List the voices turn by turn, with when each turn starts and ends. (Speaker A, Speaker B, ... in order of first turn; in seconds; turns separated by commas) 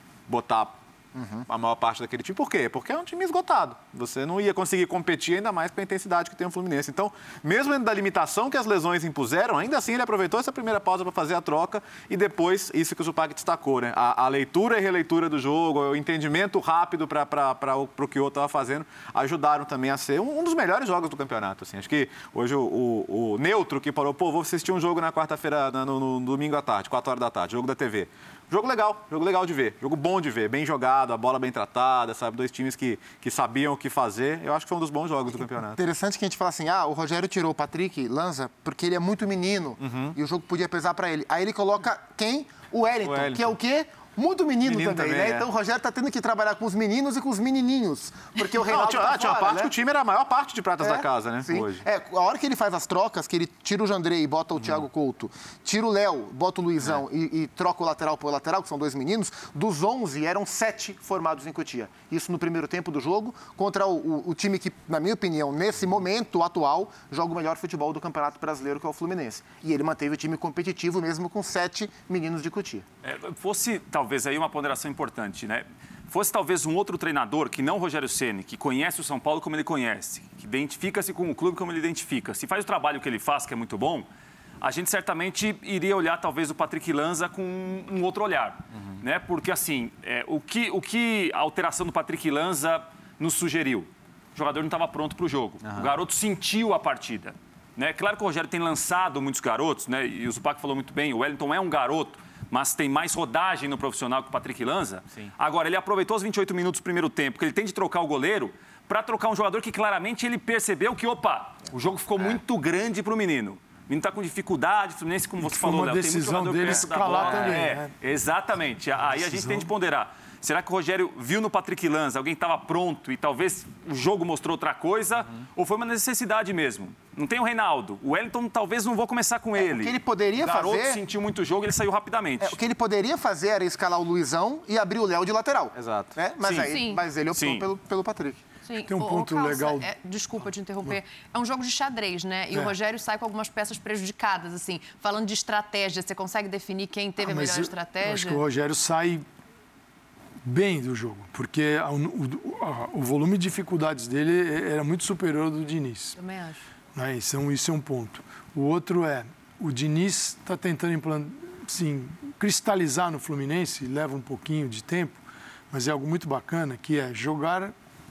Speaker A: 0.3-0.8, Speaker B: 1.1-1.5, Speaker A: 1.5-35.8, Speaker B: 35.8-49.7, Speaker A: 39.8-40.1, Speaker A: 43.0-43.5, Speaker A: 44.6-45.5, Speaker A: 48.7-51.8, Speaker B: 50.8-72.8, Speaker A: 54.6-54.8, Speaker C: 73.0-84.1, Speaker C: 84.6-132.6, Speaker A: 95.6-95.9, Speaker D: 115.4-117.9, Speaker A: 116.7-117.6, Speaker D: 119.2-119.7, Speaker B: 129.6-131.0, Speaker B: 132.4-138.4, Speaker A: 135.7-136.7, Speaker E: 136.6-137.0, Speaker C: 137.3-137.7, Speaker E: 138.7-148.4, Speaker D: 138.8-139.9, Speaker D: 147.2-149.2, Speaker D: 150.4-156.2, Speaker E: 156.2-156.7, Speaker D: 156.9-167.7